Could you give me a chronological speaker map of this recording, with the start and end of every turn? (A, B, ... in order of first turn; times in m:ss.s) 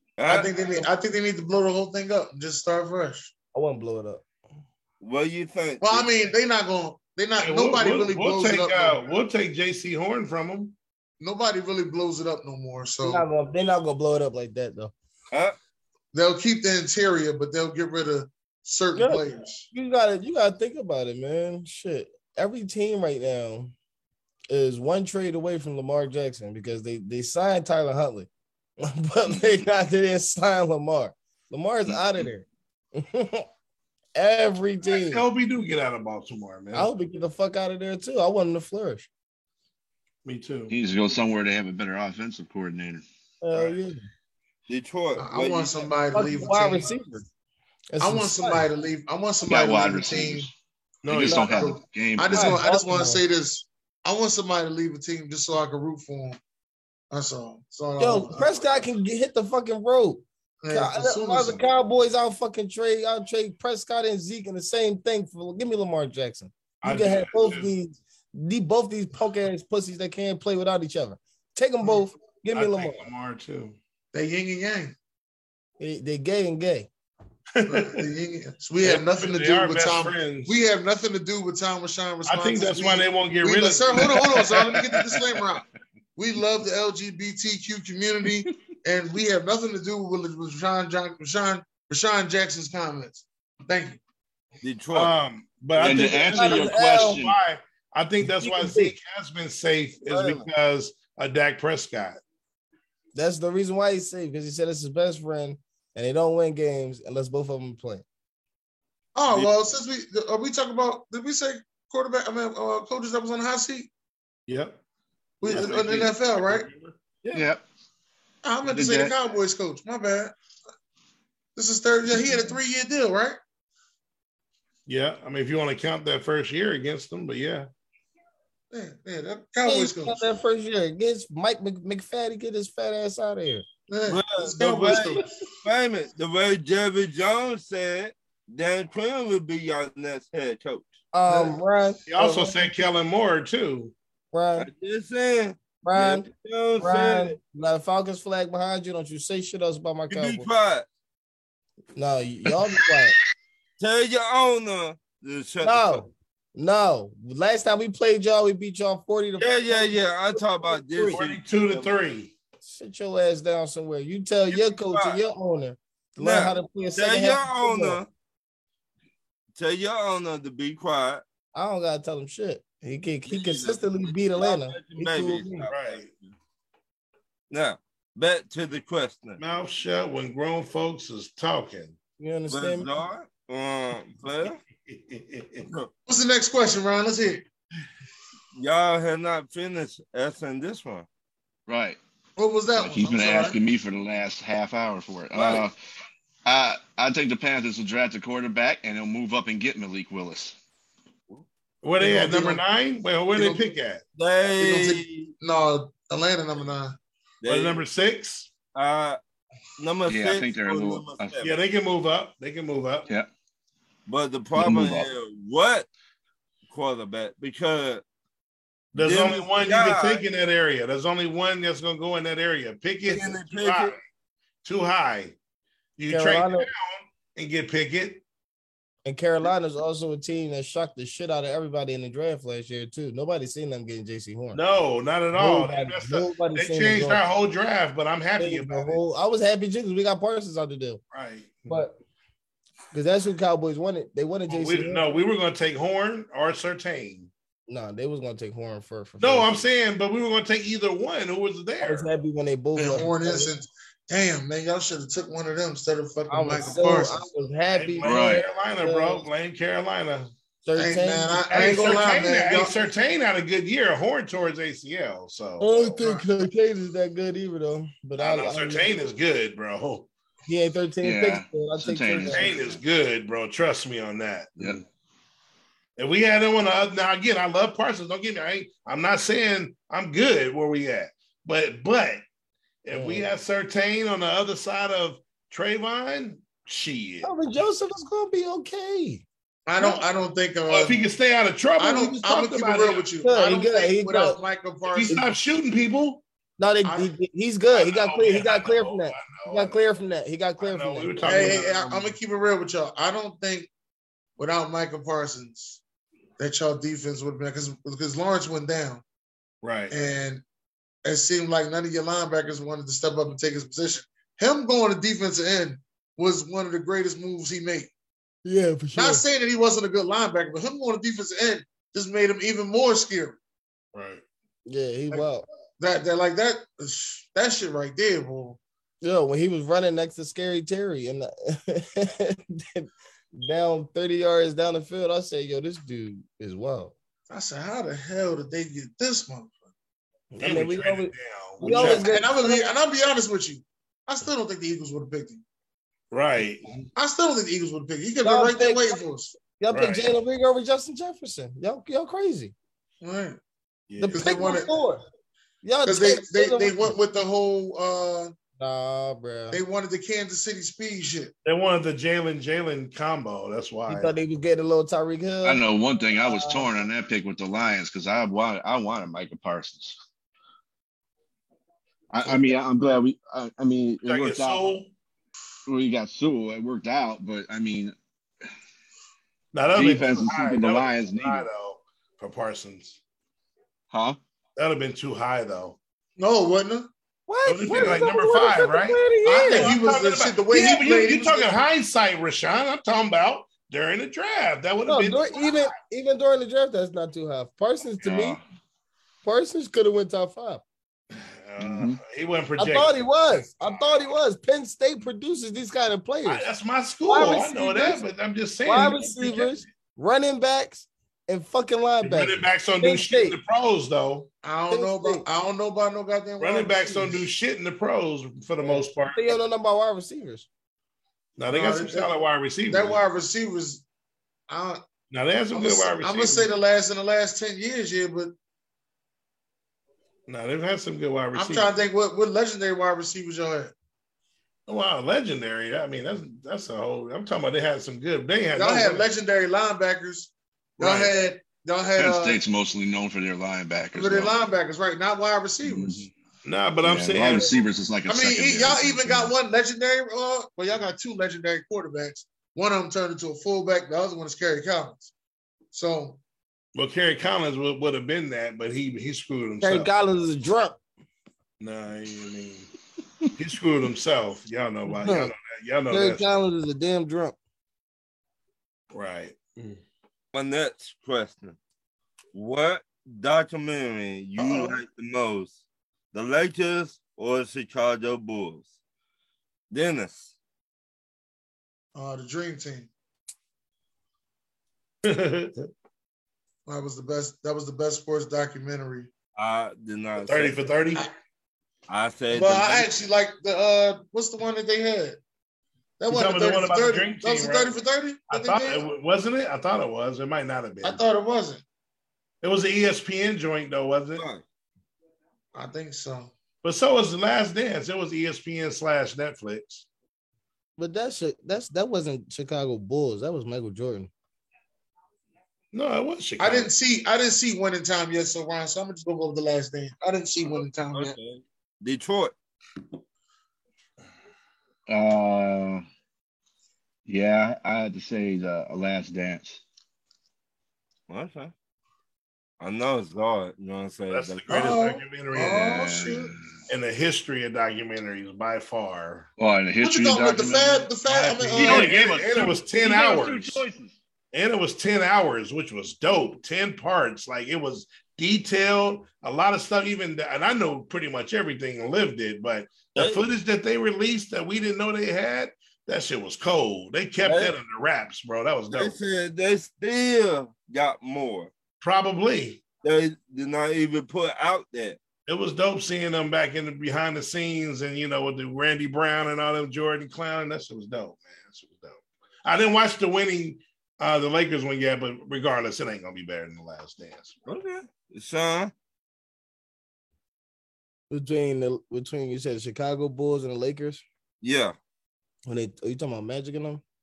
0:00.2-0:00.5 A
0:00.3-0:03.3 B
0:03.5-0:04.3 C
0:05.0-0:06.1 A
0:05.8-0:09.0 B
0:07.4-0:10.8 D
0:11.2-0:13.2 B
0:13.0-0:14.9 C
0:16.1-0:19.7 B
0:19.0-0:23.7 C
0:24.5-0:28.3 C
0:28.8-0:33.5 C
0:34.2-0:35.2 C
0:34.8-0:36.9 D
0:36.7-0:39.1 C
0:40.2-0:40.7 D
0:40.7-0:43.0 E
0:43.4-0:44.1 C
0:44.7-0:45.9 A
0:45.2-0:46.9 B
0:46.1-0:47.3 C
0:47.9-0:48.6 C
0:48.0-0:50.5 B
0:49.4-0:50.5 E
0:51.0-0:51.6 D
0:51.1-0:52.6 E
0:51.2-0:56.4 B
0:51.4-0:51.7 C
0:52.3-0:53.2 C
0:57.1-0:58.7 B
0:58.0-1:13.0 C
1:00.6-1:01.6 B
1:06.8-1:07.7 D
1:12.5-1:13.8 D
1:14.1-1:15.0 B
1:15.8-1:16.9 C
1:17.6-1:18.0 D
1:17.7-1:25.6 B
1:18.8-1:20.6 D
1:22.3-1:24.3 D
1:24.2-1:25.4 E
1:26.2-1:34.0 B
1:34.6-1:35.1 A
1:34.9-1:42.2 D
1:35.8-1:37.4 E
1:35.8-1:37.2 C
1:38.2-1:38.9 C
1:40.1-1:40.4 C
1:43.2-1:48.0 C
1:49.2-1:53.9 B
1:54.5-1:54.8 D
1:55.4-1:56.7 B
1:55.4-1:57.0 D
1:57.3-1:57.6 E
1:58.4-2:00.3 B
1:58.6-1:59.2 E
2:01.6-2:03.4 B
2:04.9-2:07.7 D
2:08.7-2:10.4 B
2:09.6-2:13.7 C
2:13.9-2:15.3 B
2:14.1-2:21.0 A
2:21.1-2:22.7 C
2:21.3-2:21.5 D
2:22.1-2:23.9 D
2:24.3-2:24.7 C
2:24.6-2:27.4 A
2:25.8-2:30.5 C
2:30.1-2:30.9 A
2:32.0-2:33.2 C
2:33.8-2:36.1 A
2:35.6-2:41.2 C
2:39.4-2:41.9 A
2:41.1-2:42.3 D
2:42.6-2:48.0 C
2:44.5-2:45.2 A
2:46.2-2:48.1 A
2:49.6-2:51.2 A
2:51.5-2:55.7 C
2:53.3-2:56.1 A
2:55.7-2:56.1 D
2:57.5-2:59.4 A
2:59.4-3:02.0 D
3:02.2-3:02.9 C
3:02.5-3:04.6 A
3:04.9-3:05.7 D
3:06.1-3:07.4 B
3:08.6-3:11.1 A
3:11.7-3:12.0 E
3:12.4-3:13.6 B
3:12.8-3:15.7 E
3:15.4-3:15.6 D
3:16.4-3:20.6 E
3:21.8-3:24.0 D
3:22.0-3:22.6 B
3:23.4-3:23.7 B
3:24.2-3:25.3 A
3:24.6-3:27.0 B
3:27.4-3:27.8 A
3:27.5-3:28.5 D
3:28.7-3:29.2 A
3:29.8-3:31.5 A
3:30.1-3:31.4 E
3:31.4-3:33.1 D
3:34.1-3:35.9 A
3:34.6-3:35.1 E
3:36.7-3:38.0 A
3:38.9-3:44.0 D
3:39.0-3:40.2 A
3:43.0-3:44.0 A
3:44.6-3:45.4 D
3:46.0-3:48.2 D
3:46.1-3:46.7 C
3:49.0-3:54.6 C
3:54.5-3:59.0 D
3:55.4-3:57.2 C
3:58.4-4:01.0 C
4:01.1-4:01.8 D
4:01.7-4:02.0 C
4:02.9-4:05.1 C
4:04.5-4:07.3 D
4:07.7-4:09.6 C
4:09.2-4:12.1 D
4:11.8-4:13.5 C
4:12.8-4:17.3 B
4:16.3-4:19.2 C
4:17.7-4:20.3 D
4:18.0-4:18.4 E
4:20.6-4:22.0 C
4:20.8-4:22.9 B
4:21.5-4:25.9 D
4:25.6-4:28.9 C
4:26.0-4:26.3 B
4:28.2-4:30.1 D
4:30.5-4:32.7 C
4:31.0-4:32.7 E
4:32.3-4:34.6 D
4:34.6-4:34.8 E
4:36.0-4:42.2 D
4:42.8-4:47.3 D
4:42.9-4:43.3 C
4:47.2-4:49.2 C
4:49.7-4:51.0 B
4:49.8-4:50.1 D
4:50.7-4:53.1 D
4:51.8-4:55.3 B
4:53.2-4:54.4 C
4:54.9-4:56.2 D
4:56.6-5:01.6 C
4:56.8-4:57.2 B
4:57.7-4:59.8 D
5:00.6-5:02.2 D
5:01.2-5:03.7 B
5:04.4-5:05.8 B
5:06.4-5:09.0 B
5:09.6-5:10.0 D
5:09.9-5:10.4 B
5:11.0-5:17.9 B
5:18.4-5:19.2 C
5:19.0-5:23.4 B
5:23.9-5:24.2 D
5:24.7-5:25.5 C
5:25.8-5:28.6 B
5:29.0-5:37.0 C
5:37.3-5:39.7 B
5:40.3-5:42.7 C
5:40.4-5:42.1 D
5:41.6-5:45.4 B
5:46.1-5:46.8 D
5:47.0-5:49.4 B
5:48.2-5:52.5 C
5:49.7-5:50.1 D
5:53.0-5:53.4 B
5:53.9-5:54.6 D
5:54.0-5:55.0 C
5:54.1-5:54.7 B
5:55.6-5:56.9 C
5:55.8-5:58.3 B
5:58.6-5:59.6 C
5:59.5-6:01.3 B
6:01.4-6:04.1 D
6:03.9-6:05.6 C
6:05.4-6:10.0 E
6:06.2-6:06.7 C
6:12.1-6:14.6 E
6:14.0-6:14.9 D
6:15.7-6:18.0 E
6:19.5-6:23.0 D
6:19.7-6:21.5 E
6:23.9-6:24.2 E
6:24.6-6:25.8 D
6:26.2-6:26.9 B
6:27.3-6:29.8 C
6:27.4-6:35.7 D
6:29.2-6:31.6 B
6:34.9-6:38.4 C
6:38.0-6:38.4 E
6:39.2-6:40.6 C
6:41.1-6:44.1 D
6:41.6-6:42.0 E
6:42.6-6:46.5 C
6:46.2-6:49.6 D
6:47.1-6:48.0 C
6:48.6-6:53.4 C
6:52.0-6:54.3 D
6:54.4-6:57.3 B
6:54.7-6:55.2 C
6:56.4-6:59.4 D
6:58.6-7:00.5 C
7:01.4-7:03.0 D
7:01.5-7:02.1 B
7:02.7-7:03.8 B
7:04.5-7:04.8 B
7:05.1-7:06.5 D
7:05.5-7:08.3 B
7:10.3-7:11.7 D
7:11.4-7:13.7 B
7:14.7-7:19.1 D
7:18.6-7:22.4 B
7:20.8-7:21.1 D
7:22.0-7:24.3 E
7:23.9-7:26.1 B
7:25.6-7:26.1 E
7:26.4-7:27.6 D
7:26.8-7:29.3 E
7:28.1-7:35.1 B
7:35.7-7:36.2 B
7:36.8-7:39.9 D
7:39.6-7:40.8 C
7:41.6-7:42.7 D
7:43.4-7:46.2 D
7:44.9-7:45.3 C
7:45.9-7:47.4 C
7:48.9-7:49.8 D
7:50.3-7:51.6 A
7:52.3-7:55.6 A
7:54.4-7:54.8 B
7:56.1-7:58.7 A
7:59.7-8:00.3 A
8:02.0-8:02.9 B
8:05.0-8:05.7 D
8:06.7-8:09.1 B
8:09.4-8:10.6 A
8:10.2-8:11.1 D
8:11.9-8:12.9 A
8:12.3-8:15.2 B
8:16.0-8:18.9 B
8:16.1-8:17.7 D
8:18.3-8:21.0 D
8:20.8-8:21.6 B
8:22.4-8:24.2 D
8:24.2-8:24.4 A
8:25.5-8:26.3 B
8:26.6-8:29.9 D
8:30.8-8:34.1 C
8:35.7-8:36.7 D
8:36.4-8:41.2 B
8:40.9-8:42.3 A
8:44.9-8:45.8 E
8:47.1-8:49.6 E
8:51.1-8:51.5 A
8:52.6-8:54.7 A
8:54.1-8:55.8 D
8:54.5-8:56.3 B
8:55.4-8:56.4 E
8:56.7-8:59.3 D
8:59.4-9:00.9 E
8:59.8-9:01.9 B
9:01.1-9:03.6 D
9:01.4-9:04.0 E
9:04.3-9:19.0 D
9:13.0-9:13.2 A
9:17.2-9:17.6 A
9:18.7-9:21.5 A
9:21.8-9:22.6 D
9:22.8-9:25.0 A
9:25.3-9:37.4 D
9:37.4-9:38.7 A
9:41.1-9:44.0 C
9:44.4-9:44.8 A
9:45.5-9:46.8 C